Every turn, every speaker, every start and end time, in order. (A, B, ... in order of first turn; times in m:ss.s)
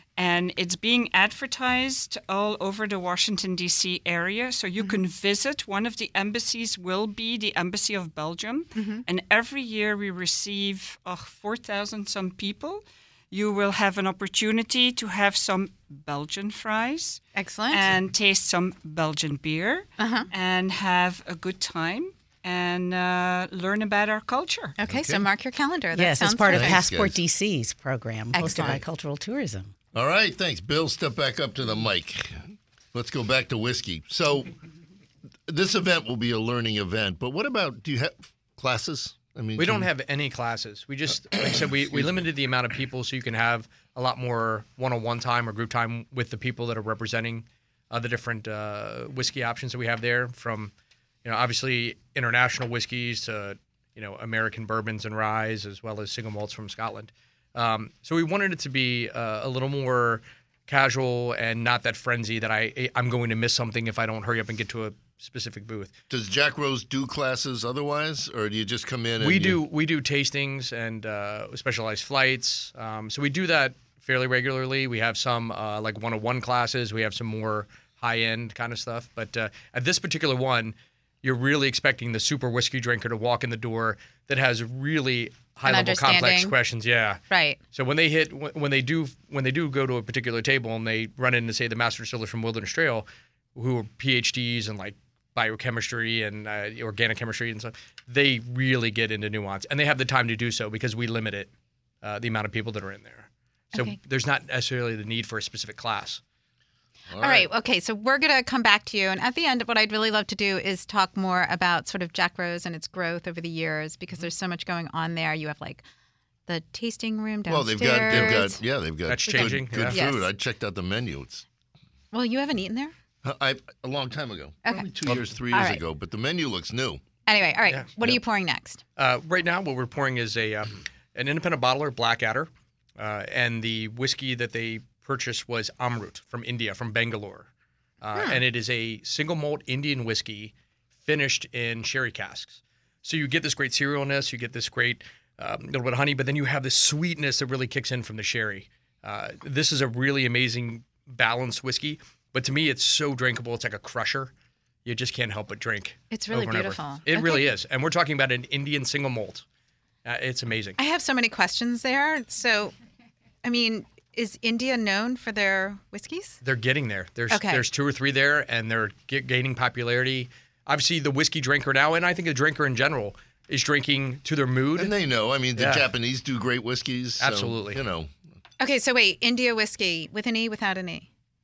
0:00.2-0:24.8 A
0:08.7-0:09.0 B
0:17.3-0:17.9 B
0:20.0-0:20.3 B
0:24.8-0:26.8 B
0:24.8-0:25.2 C
0:25.9-0:29.7 D
0:26.5-0:27.2 C
0:28.3-0:28.8 B
0:29.9-0:34.6 C
0:35.5-0:39.9 C
0:39.6-0:50.7 E
0:41.5-0:42.2 C
0:51.2-1:05.9 E
1:06.1-1:09.6 C
1:09.2-1:27.2 E
1:25.7-1:26.5 B
1:27.3-1:27.6 B
1:27.7-1:41.5 E
1:42.0-1:46.2 E
1:47.1-1:47.5 C
1:47.2-1:55.8 B
1:56.5-1:58.6 B
1:57.5-2:01.4 C
1:59.1-2:00.0 E
1:59.2-2:00.3 B
2:02.1-2:02.9 B
2:03.2-2:07.0 C
2:05.5-2:05.8 B
2:07.3-2:08.8 B
2:09.0-2:17.5 E
2:18.0-2:34.3 E
2:34.8-2:39.4 E
2:36.1-2:37.4 B
2:40.0-2:40.8 E
2:40.8-2:42.7 B
2:43.4-2:46.4 B
2:46.4-2:54.9 E
2:47.3-2:47.6 B
2:54.8-2:58.1 C
2:55.6-2:55.8 E
2:57.2-2:57.8 E
2:58.6-3:01.1 B